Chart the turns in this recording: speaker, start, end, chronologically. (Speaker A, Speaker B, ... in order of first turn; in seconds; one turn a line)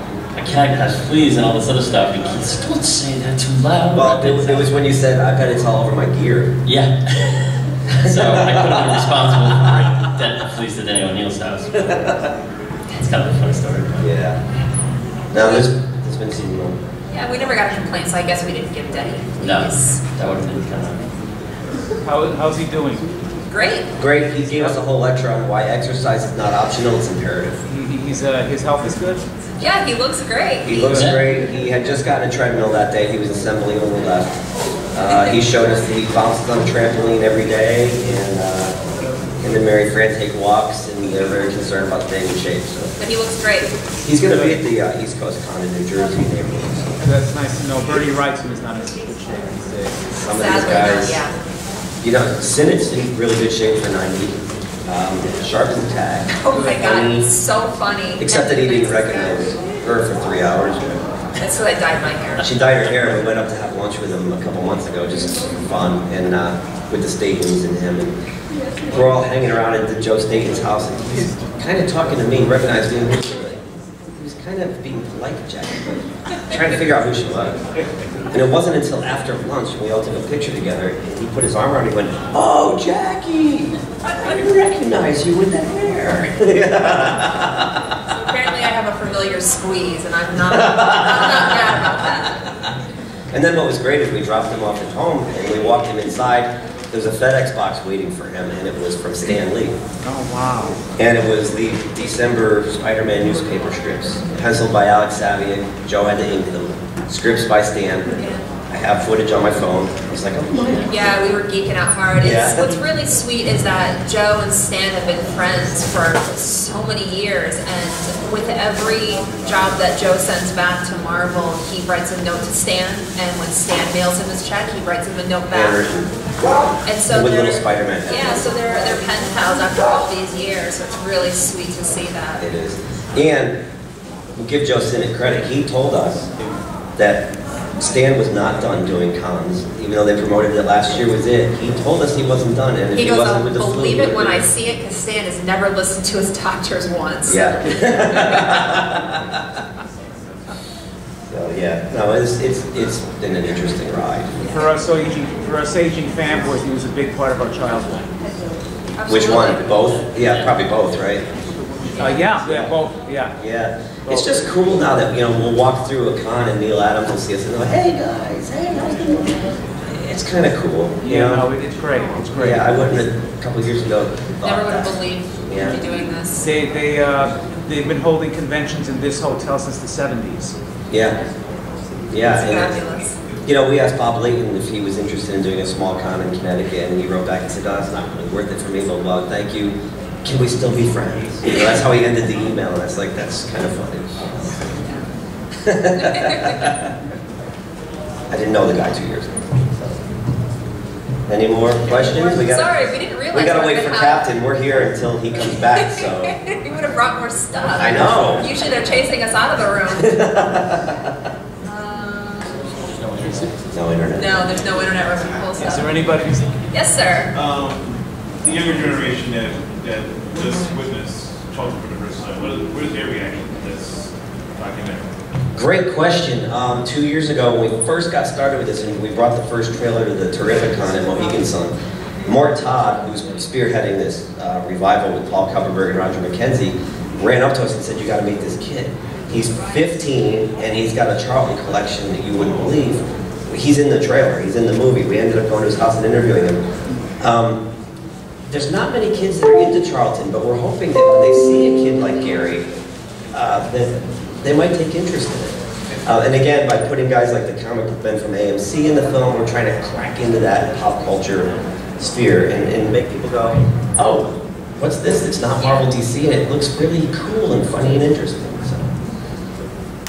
Speaker A: 0.3-4.9
Speaker B: 3.9-6.5
Speaker A: 6.6-12.0
Speaker B: 8.0-10.0
Speaker A: 12.9-14.1
Speaker B: 14.0-14.4
Speaker B: 15.3-16.8
Speaker C: 17.1-20.0
Speaker A: 19.4-21.0
Speaker D: 22.0-23.0
Speaker C: 23.5-23.9
Speaker B: 24.0-27.6
Speaker D: 24.5-24.8
Speaker D: 27.6-29.2
Speaker C: 29.6-31.0
Speaker B: 30.6-34.3
Speaker A: 30.9-31.2
Speaker B: 34.9-38.8
Speaker B: 39.4-42.9
Speaker C: 43.0-43.7
Speaker B: 44.0-46.9
Speaker D: 44.2-44.6
Speaker D: 47.0-50.0
Speaker B: 50.1-51.2
Speaker C: 50.4-51.3
Speaker B: 52.0-57.2
Speaker C: 56.3-59.4
Speaker B: 58.2-61.0
Speaker C: 61.4-62.5
Speaker B: 62.4-68.1
Speaker B: 68.9-73.6
Speaker B: 74.1-77.6
Speaker B: 78.3-88.0
Speaker C: 88.2-92.4
Speaker B: 90.4-92.0
Speaker B: 93.3-99.8
Speaker D: 100.0-101.0
Speaker B: 101.0-108.1
Speaker C: 108.2-108.5
Speaker B: 108.7-110.9
Speaker C: 110.9-125.8
Speaker B: 112.2-112.8
Speaker B: 125.5-126.1
Speaker C: 126.8-132.4
Speaker B: 127.1-128.5
Speaker B: 132.4-133.6
Speaker B: 134.3-136.3
Speaker B: 137.0-144.4
Speaker C: 142.9-147.6
Speaker B: 147.2-149.2
Speaker B: 151.3-154.4
Speaker D: 154.5-158.1
Speaker C: 159.0-159.8
Speaker B: 159.1-161.2
Speaker D: 162.0-163.3
Speaker B: 162.4-162.7
Speaker B: 163.4-171.5
Speaker D: 164.1-164.6
Speaker D: 171.0-172.8
Speaker B: 172.3-174.9
Speaker C: 174.4-176.5
Speaker B: 175.5-175.8
Speaker D: 176.3-180.5
Speaker B: 180.9-181.2
Speaker B: 182.1-182.8
Speaker C: 182.2-183.2
Speaker B: 183.4-194.7
Speaker B: 195.6-196.8
Speaker C: 196.0-196.7
Speaker B: 198.3-200.0
Speaker B: 201.3-206.3
Speaker C: 201.8-204.3
Speaker C: 205.7-210.1
Speaker B: 207.7-208.5
Speaker B: 210.0-211.1
Speaker C: 211.6-212.6
Speaker D: 213.0-213.5
Speaker B: 213.7-214.4
Speaker C: 214.1-215.9
Speaker D: 215.6-216.6
Speaker C: 216.7-217.3
Speaker E: 217.3-217.8
Speaker E: 218.4-225.1
Speaker B: 225.6-231.7
Speaker B: 232.2-246.6
Speaker B: 247.2-247.6
Speaker B: 248.5-252.7
Speaker B: 253.3-268.9
Speaker C: 265.6-265.9